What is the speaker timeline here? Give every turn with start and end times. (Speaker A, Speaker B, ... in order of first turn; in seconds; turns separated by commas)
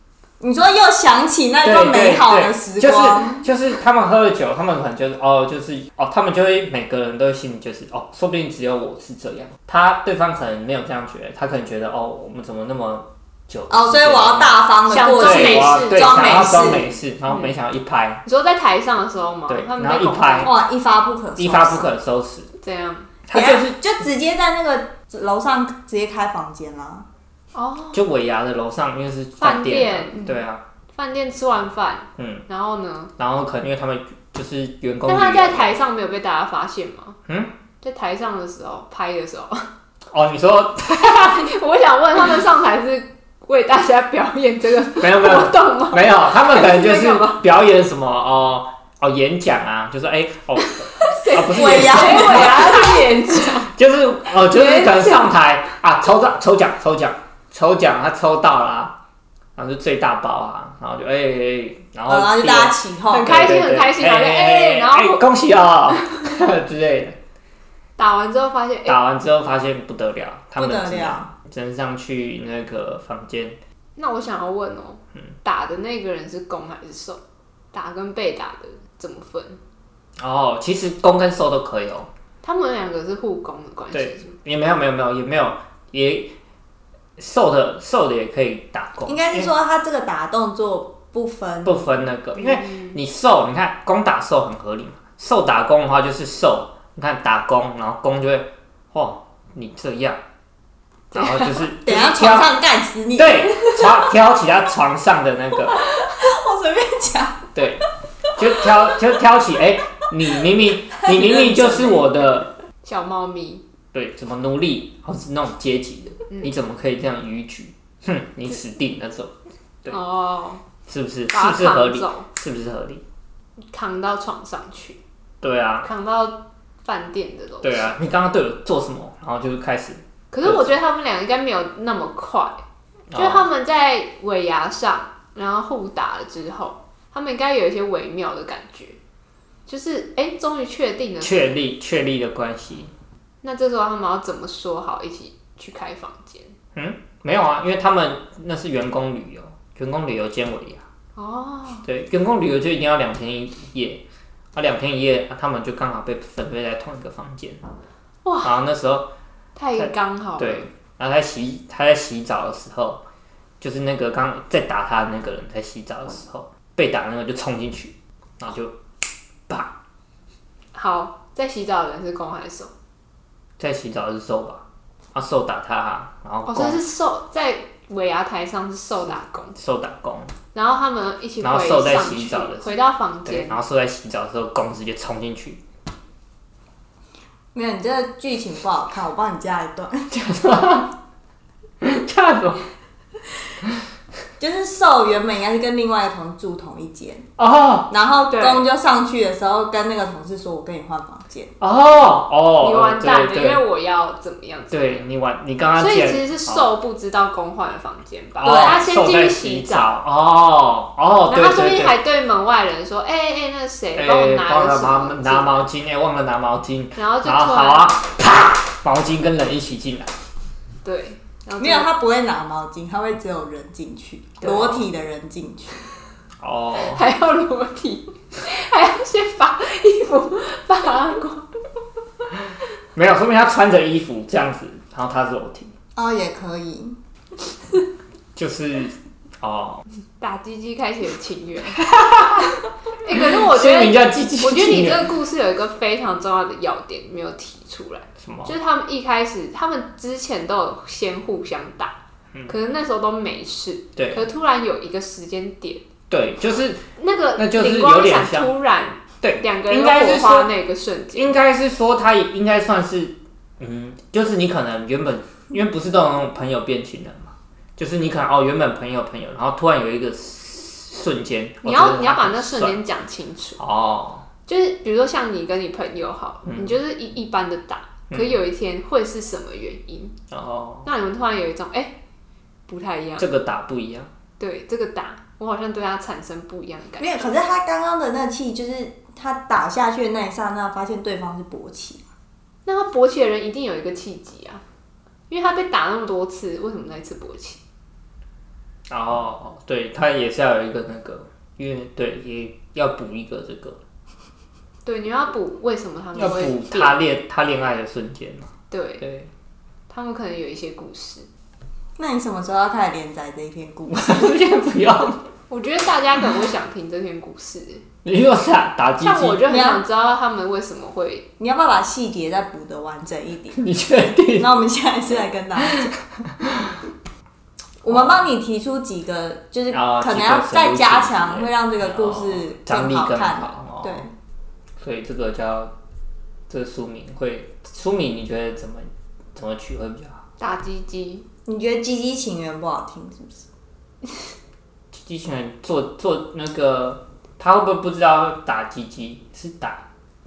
Speaker A: 0.4-3.5, Speaker B: 1.6-18.2, Speaker A: 13.7-16.9, Speaker C: 14.9-17.5, Speaker C: 18.2-20.5, Speaker B: 19.5-20.5, Speaker A: 20.4-21.9, Speaker B: 21.4-22.5, Speaker C: 22.6-23.1, Speaker B: 23.3-23.8, Speaker A: 23.3-27.1, Speaker C: 27.5-28.0, Speaker B: 27.9-30.6, Speaker C: 29.4-30.4, Speaker C: 30.9-33.1, Speaker B: 32.2-32.4, Speaker B: 33.2-35.8, Speaker C: 35.0-37.2, Speaker B: 37.3-37.5, Speaker C: 37.8-39.7, Speaker B: 40.1-41.5, Speaker C: 41.1-47.4, Speaker B: 45.0-52.8, Speaker C: 50.6-53.7, Speaker A: 51.4-52.9, Speaker B: 53.7-59.0, Speaker C: 54.4-55.4, Speaker B: 59.5-67.2, Speaker A: 62.1-63.4, Speaker C: 63.1-65.2, Speaker C: 68.0-69.0, Speaker B: 68.9-73.6, Speaker A: 70.6-71.3, Speaker C: 74.0-77.2, Speaker C: 77.7-79.6, Speaker B: 80.2-82.1, Speaker C: 82.4-84.3, Speaker B: 83.9-86.3, Speaker B: 87.2-89.5, Speaker A: 89.0-91.8, Speaker B: 91.6-100.2, Speaker C: 92.5-92.9, Speaker B: 101.1-102.5, Speaker A: 101.8-103.9, Speaker B: 103.2-105.8, Speaker A: 105.9-107.5, Speaker B: 107.5-112.5, Speaker A: 111.0-112.0, Speaker C: 112.8-113.6, Speaker B: 113.9-119.3, Speaker C: 119.9-120.6, Speaker B: 120.9-123.0, Speaker C: 121.3-122.3, Speaker C: 123.7-125.0, Speaker B: 125.4-125.9, Speaker C: 125.8-128.0, Speaker B: 127.6-130.7, Speaker C: 130.3-132.6, Speaker B: 133.1-133.5, Speaker C: 133.1-139.0, Speaker C: 139.7-141.5, Speaker B: 141.2-142.9, Speaker C: 143.4-146.5, Speaker B: 146.7-150.8, Speaker C: 151.2-151.8, Speaker B: 151.8-154.0, Speaker B: 154.5-157.6, Speaker C: 158.2-158.5, Speaker B: 158.4-159.1, Speaker C: 159.6-160.7, Speaker B: 159.8-163.0, Speaker B: 163.6-168.7, Speaker C: 170.7-172.7, Speaker B: 173.6-174.6, Speaker B: 175.1-176.8, Speaker C: 176.5-179.6, Speaker B: 179.6-180.3, Speaker C: 180.5-183.6, Speaker B: 181.4-185.6, Speaker A: 187.5-190.1, Speaker B: 190.1-190.9, Speaker B: 191.8-192.6, Speaker A: 194.4-197.2, Speaker B: 197.4-197.9, Speaker A: 197.9-201.5, Speaker C: 198.3-198.6, Speaker B: 201.6-203.6, Speaker C: 202.6-205.1, Speaker B: 204.7-206.7, Speaker C: 205.8-209.9, Speaker B: 208.4-212.0, Speaker A: 208.4-208.8, Speaker C: 211.3-215.6, Speaker B: 213.9-220.1, Speaker C: 216.9-218.0, Speaker C: 220.8-221.9, Speaker A: 221.6-225.8, Speaker B: 224.4-224.8, Speaker B: 226.4-227.0, Speaker C: 226.8-231.5, Speaker B: 232.9-235.7, Speaker A: 235.9-237.0, Speaker B: 238.3-239.8, Speaker C: 240.2-241.8, Speaker B: 241.8-242.4, Speaker C: 242.4-251.9, Speaker B: 243.1-245.1, Speaker B: 248.2-248.5, Speaker C: 252.5-255.8, Speaker B: 253.9-254.2, Speaker B: 256.1-256.9, Speaker C: 257.0-261.3, Speaker B: 257.4-258.5, Speaker B: 259.2-260.5, Speaker B: 261.1-272.8, Speaker C: 271.6-273.6, Speaker B: 273.6-274.2, Speaker C: 274.4-280.1, Speaker B: 276.5-276.8, Speaker B: 278.1-278.4, Speaker B: 280.3-280.9, Speaker C: 280.8-281.9, Speaker C: 282.7-283.2, Speaker B: 283.2-284.1, Speaker C: 284.4-287.3, Speaker A: 287.0-292.1, Speaker C: 292.6-294.6, Speaker C: 295.3-297.6, Speaker B: 298.9-303.8, Speaker C: 304.8-306.9, Speaker B: 306.1-309.3, Speaker C: 308.7-309.0, Speaker C: 309.9-311.3, Speaker A: 312.0-314.4, Speaker B: 313.9-315.2, Speaker C: 315.5-317.8, Speaker B: 318.0-319.6, Speaker C: 319.0-321.3, Speaker A: 319.5-319.8, Speaker A: 321.4-323.6, Speaker B: 323.6-324.6, Speaker A: 324.3-325.9, Speaker B: 325.6-326.8, Speaker A: 327.8-334.1, Speaker B: 327.9-328.2, Speaker B: 329.7-334.0, Speaker B: 334.8-335.7, Speaker B: 336.5-340.2, Speaker C: 340.4-341.2, Speaker A: 341.4-343.5, Speaker B: 344.9-349.8